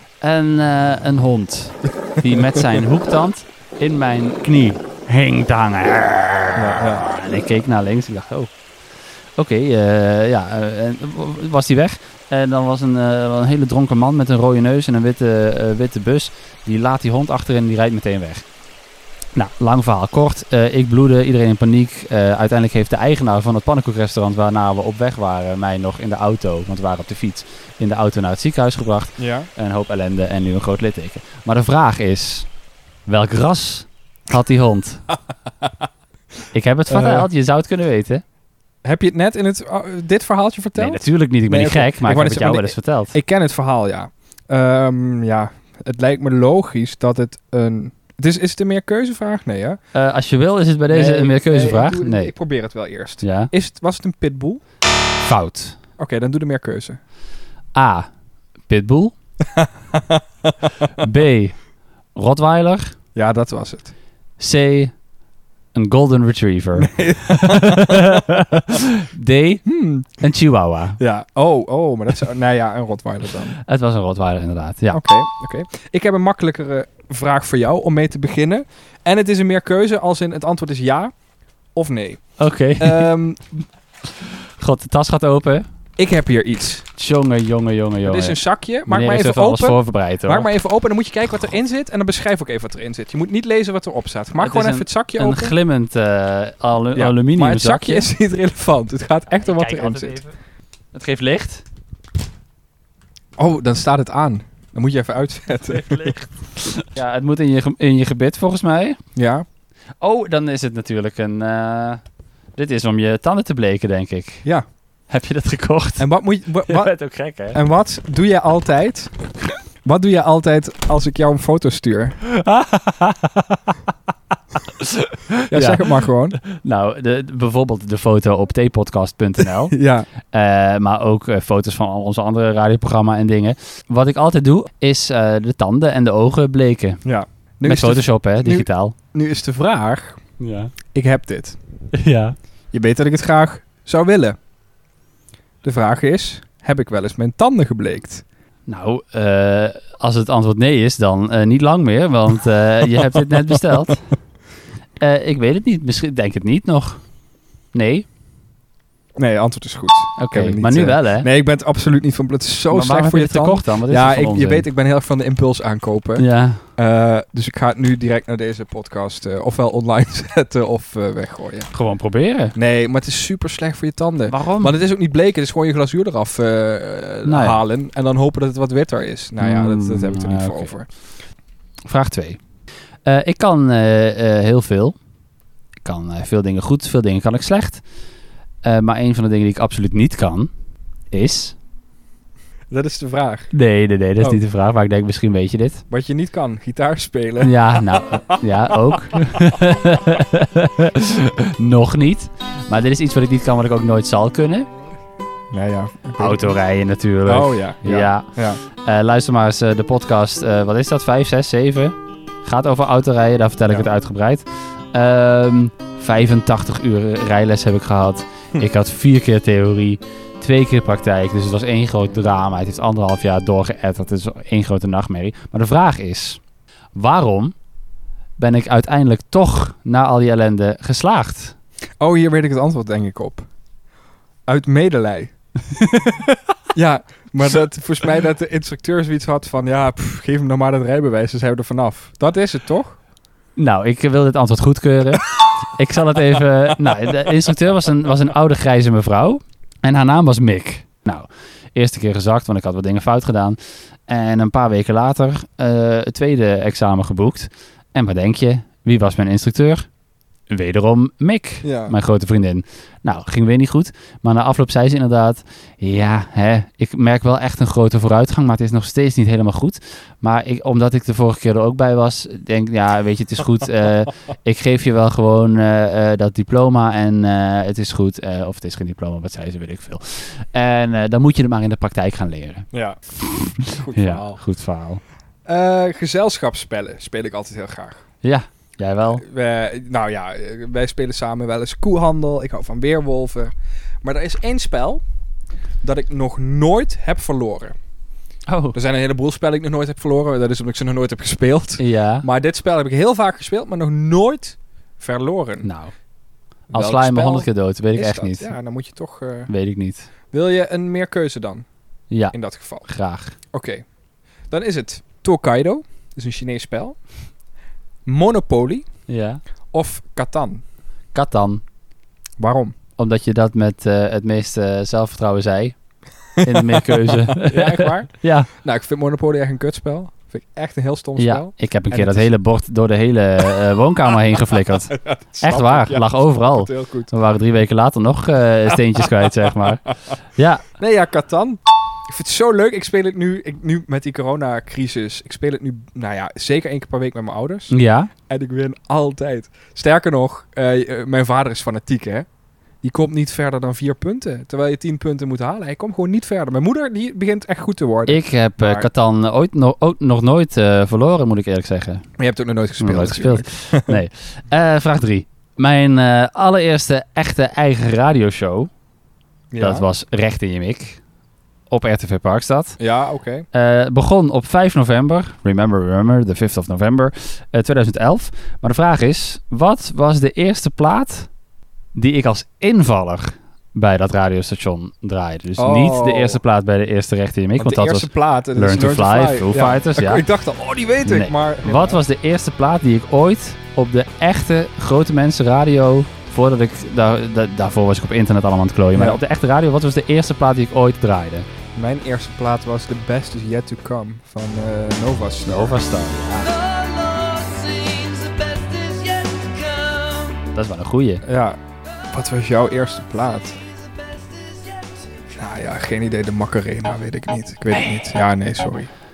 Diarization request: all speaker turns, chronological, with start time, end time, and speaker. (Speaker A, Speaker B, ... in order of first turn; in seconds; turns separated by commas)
Speaker A: 0.2-8.5, Speaker B: 6.5-7.0, Speaker A: 9.4-18.4, Speaker A: 19.3-32.5, Speaker B: 29.2-29.5, Speaker A: 33.1-35.1, Speaker A: 36.5-38.2, Speaker B: 36.9-37.3, Speaker B: 38.8-49.8, Speaker A: 40.8-43.1, Speaker A: 49.9-52.3, Speaker B: 50.9-54.6, Speaker A: 53.2-53.5, Speaker A: 55.2-55.8, Speaker B: 56.0-57.0, Speaker A: 57.7-58.1, Speaker A: 58.7-59.1, Speaker B: 59.5-61.0, Speaker A: 61.0-61.6, Speaker A: 62.1-62.9, Speaker B: 63.1-63.9, Speaker A: 64.4-64.9, Speaker A: 65.7-69.7, Speaker B: 66.8-68.3, Speaker B: 69.7-70.2, Speaker A: 70.2-71.0, Speaker B: 71.0-73.6, Speaker A: 73.6-75.0, Speaker B: 74.9-81.1, Speaker B: 81.7-83.6, Speaker A: 82.4-83.1, Speaker A: 84.2-85.7, Speaker B: 86.0-86.8, Speaker A: 87.0-90.5, Speaker B: 88.0-95.5, Speaker A: 94.4-98.1, Speaker B: 96.9-100.2, Speaker A: 99.3-100.3, Speaker A: 100.9-101.6, Speaker B: 103.4-106.2, Speaker A: 105.7-109.0, Speaker B: 109.2-109.4, Speaker A: 110.0-112.0, Speaker A: 112.6-114.5, Speaker A: 115.1-116.1, Speaker B: 116.0-116.9, Speaker A: 116.7-117.6, Speaker B: 117.5-119.1, Speaker B: 119.8-122.2, Speaker A: 122.2-123.8, Speaker A: 124.7-137.0, Speaker B: 125.5-126.4, Speaker B: 129.7-130.1, Speaker B: 137.0-140.2, Speaker A: 137.6-138.9, Speaker A: 140.4-140.7, Speaker B: 140.9-141.6, Speaker A: 141.9-142.3, Speaker B: 142.7-144.4, Speaker B: 145.6-148.2, Speaker A: 148.7-154.1, Speaker A: 155.0-157.0, Speaker A: 157.7-158.0, Speaker B: 159.2-166.2, Speaker A: 160.2-161.3, Speaker A: 162.7-164.7, Speaker A: 166.2-166.6, Speaker B: 166.8-171.7, Speaker A: 171.7-172.6, Speaker B: 172.5-180.9, Speaker A: 174.3-174.8, Speaker A: 177.2-177.6, Speaker A: 179.4-180.7, Speaker A: 181.9-182.4, Speaker A: 183.0-184.9, Speaker A: 185.8-187.8, Speaker A: 188.6-190.5, Speaker A: 191.1-191.5, Speaker B: 192.7-193.5, Speaker A: 193.5-195.8, Speaker B: 195.9-197.5, Speaker A: 197.4-204.7, Speaker B: 205.5-206.5, Speaker A: 206.2-226.4, Speaker B: 207.3-208.6, Speaker A: 226.9-227.5, Speaker A: 228.4-231.5, Speaker B: 232.0-233.5, Speaker B: 234.5-235.3, Speaker B: 236.7-243.0, Speaker A: 243.6-259.9, Speaker A: 260.5-282.7, Speaker B: 261.6-261.9, Speaker B: 282.7-283.0, Speaker A: 283.2-285.0, Speaker B: 283.6-284.4, Speaker B: 285.5-288.0, Speaker A: 288.2-289.2, Speaker B: 289.2-295.0, Speaker B: 295.8-297.7, Speaker A: 298.5-298.8, Speaker B: 298.7-305.7, Speaker A: 301.8-302.2, Speaker A: 305.6-305.9, Speaker B: 306.7-309.5, Speaker A: 306.7-308.5, Speaker A: 309.5-310.1, Speaker B: 310.3-311.6, Speaker A: 312.1-313.4, Speaker B: 312.3-312.9, Speaker B: 313.5-313.8, Speaker B: 314.5-317.0, Speaker B: 318.1-318.9, Speaker A: 319.1-319.4, Speaker B: 319.7-320.6, Speaker A: 321.1-321.6, Speaker B: 322.4-322.7, Speaker A: 323.0-325.8, Speaker B: 326.4-332.3, Speaker A: 326.4-328.5, Speaker A: 331.2-339.8, Speaker B: 334.9-337.1, Speaker B: 339.0-339.5, Speaker A: 340.4-340.7, Speaker B: 340.8-347.7, Speaker A: 347.7-348.1, Speaker B: 348.3-352.3, Speaker B: 352.8-358.9, Speaker A: 358.1-362.1, Speaker B: 362.2-364.0, Speaker A: 362.8-368.7, Speaker B: 369.5-369.9, Speaker A: 369.6-371.0, Speaker A: 371.7-372.8, Speaker B: 372.8-373.5, Speaker A: 373.5-381.3, Speaker A: 381.9-390.2, Speaker B: 385.6-386.4, Speaker B: 387.6-392.0, Speaker A: 391.1-401.5, Speaker B: 398.9-399.2, Speaker B: 401.7-405.7, Speaker A: 405.4-406.5, Speaker C: 406.4-410.5, Speaker A: 410.5-411.2, Speaker B: 411.2-411.6, Speaker B: 412.1-413.6, Speaker C: 413.6-415.0, Speaker B: 415.4-418.9